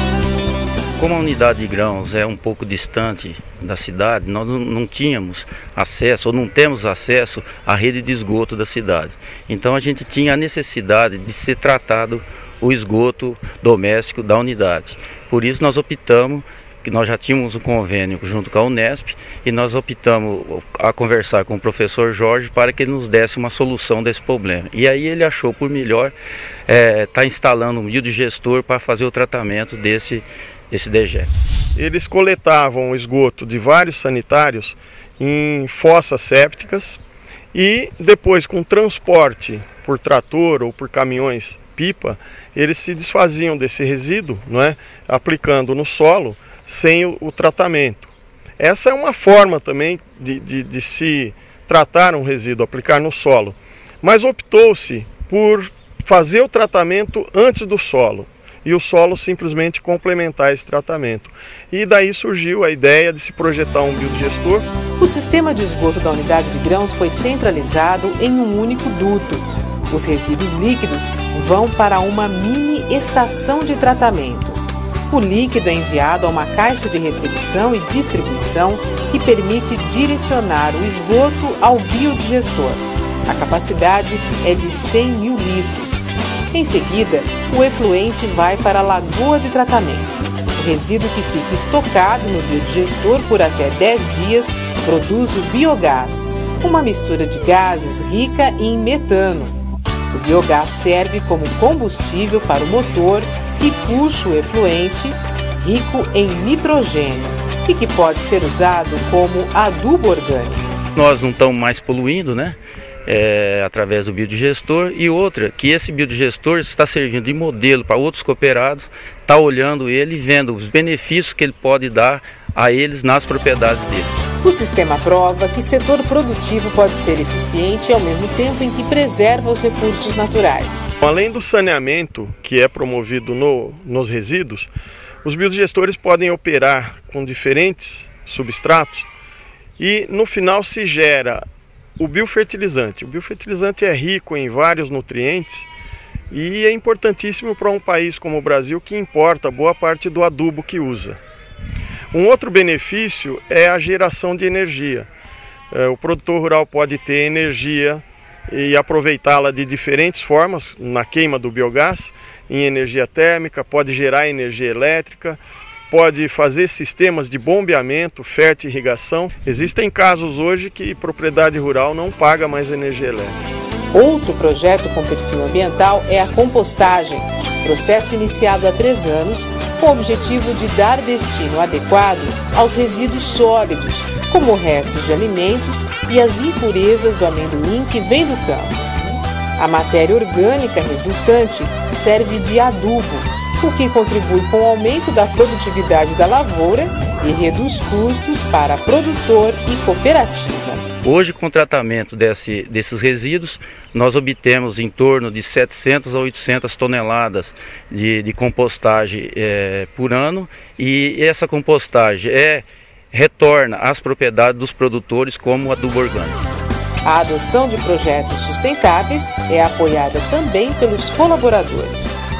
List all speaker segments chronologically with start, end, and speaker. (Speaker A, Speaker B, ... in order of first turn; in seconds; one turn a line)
Speaker A: 1.0-26.1
Speaker A: 26.7-31.3
Speaker B: 31.8-37.0
Speaker B: 37.5-64.6
Speaker C: 65.0-99.5
Speaker C: 100.1-110.6
Speaker A: 110.9-124.2
Speaker C: 124.4-130.9
Speaker B: 131.0-134.7
Speaker B: 135.2-139.1
Speaker B: 139.8-141.4
Speaker B: 142.0-145.7
Speaker B: 146.3-151.2
Speaker B: 152.1-155.1
Speaker B: 155.7-173.3
Speaker C: 173.9-188.8
Speaker C: 189.6-200.8
Speaker A: 201.0-216.4
Speaker C: 217.0-222.2